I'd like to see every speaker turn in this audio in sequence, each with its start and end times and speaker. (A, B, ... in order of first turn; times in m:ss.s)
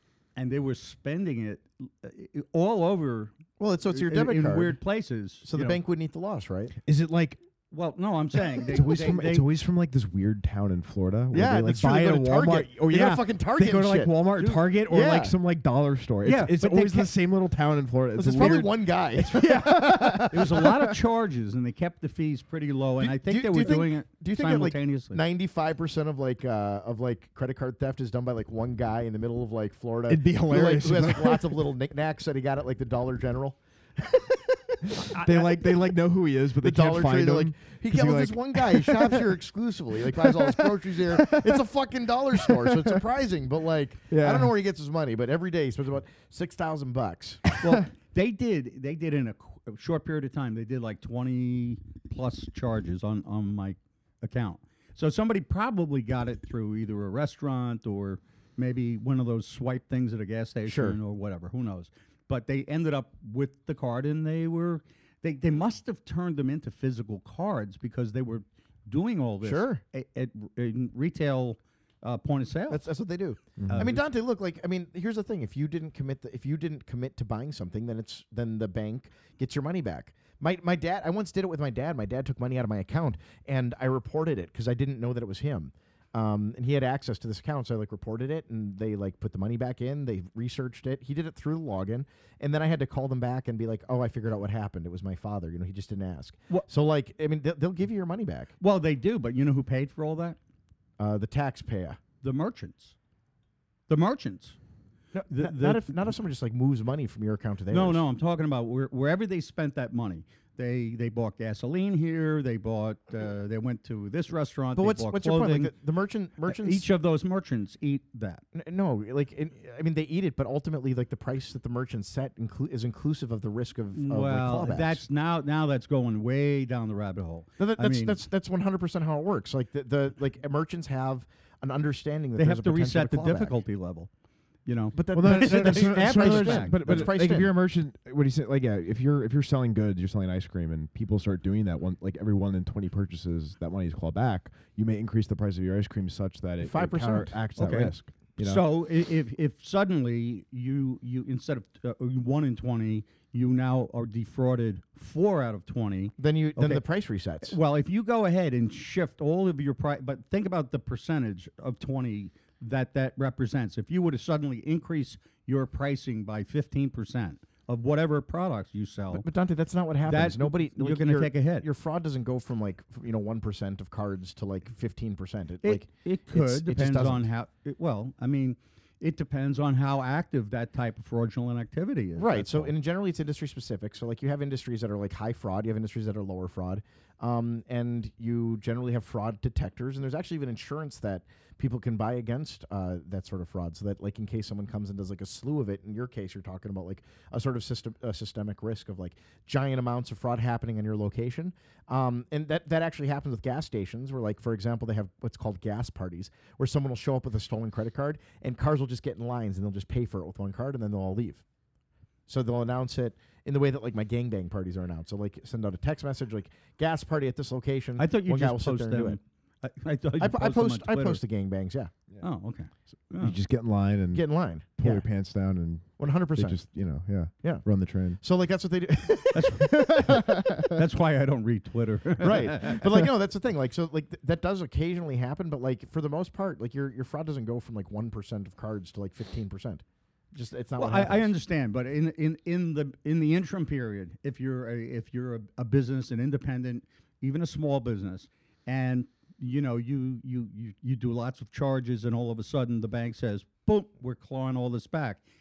0:00.4-0:03.3 A
0:03.6-0:04.8 B
0:03.9-0:05.8 A
0:05.4-0:06.8 B
0:06.8-0:07.4 C
0:07.7-0:09.4 A
0:08.6-0:20.9 C
0:11.3-0:14.1 B
0:14.4-0:14.6 A
0:14.9-0:15.3 B
0:16.2-0:17.0 A
0:18.2-0:20.7 B
0:20.3-0:25.2 A
0:23.0-0:35.2 B
0:30.1-0:31.6 C
0:34.9-0:39.3 C
0:36.6-0:47.5 B
0:40.0-0:41.6 C
0:42.4-0:43.0 C
0:44.1-0:44.5 C
0:47.6-1:12.8 A
1:00.6-1:01.0 B
1:09.4-1:09.8 B
1:12.7-1:38.5 B
1:13.6-1:13.9 C
1:13.7-1:14.0 A
1:38.6-1:40.4 A
1:41.0-1:42.0 B
1:42.2-1:43.0 A
1:43.9-1:44.6 A
1:45.1-1:48.0 B
1:45.3-1:46.0 A
1:47.7-1:55.7 A
1:54.8-1:56.8 B
1:56.4-1:58.4 A
1:58.5-2:05.0 B
2:03.9-2:08.2 A
2:07.6-2:13.6 B
2:12.4-2:14.1 A
2:14.6-2:17.1 A
2:14.9-2:17.5 B
2:15.1-2:28.6 C
2:26.6-2:27.8 B
2:27.6-2:36.8 A
2:36.2-2:37.6 B
2:37.4-2:49.2 A
2:49.1-2:57.3 B
2:50.0-2:51.6 A
2:55.6-3:02.7 A
3:02.2-3:31.4 B
3:32.3-3:39.2 B
3:38.0-3:41.2 A
3:40.2-3:41.9 B
3:42.2-3:43.4 A
3:43.2-3:44.2 C
3:44.1-3:45.0 B
3:44.8-3:48.2 C
3:46.0-3:46.6 B
3:48.2-3:50.7 B
3:49.3-3:53.0 A
3:52.2-4:01.3 B
4:00.8-4:15.2 A